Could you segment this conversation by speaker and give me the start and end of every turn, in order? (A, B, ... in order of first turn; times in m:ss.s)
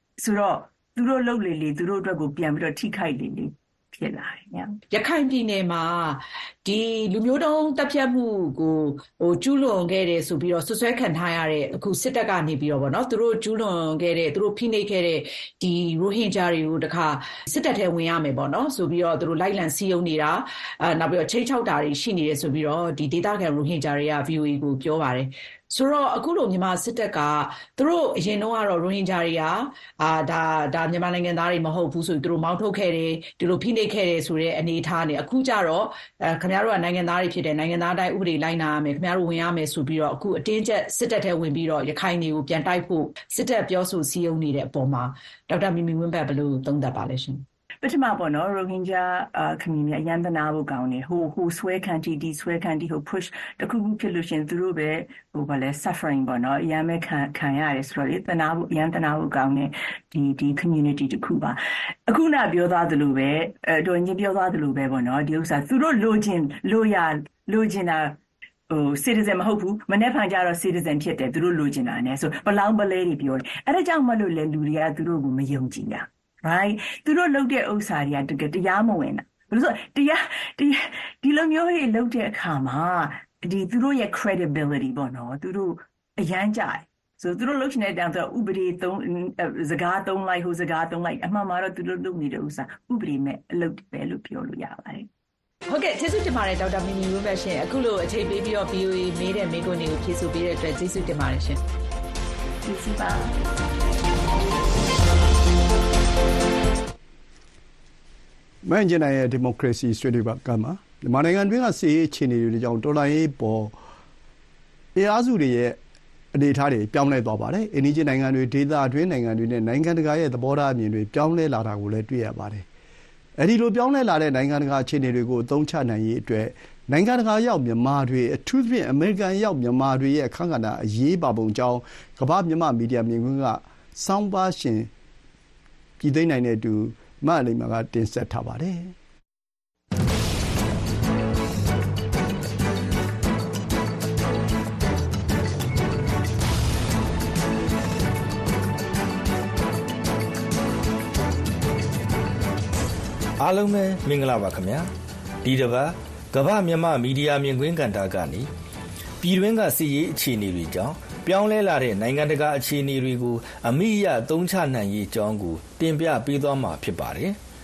0:00.2-0:04.7 A
0:04.9-0:47.4 B
0:47.8-1:08.2 A
1:08.7-1:35.1 A
1:35.7-1:41.6 B
1:42.6-1:43.4 A
1:48.6-1:53.7 C
1:54.9-1:55.8 C
1:56.3-2:02.6 C
2:03.4-2:14.9 C
2:16.0-2:18.9 C
2:33.4-2:34.9 D
2:35.4-2:38.5 D
2:39.2-2:47.4 D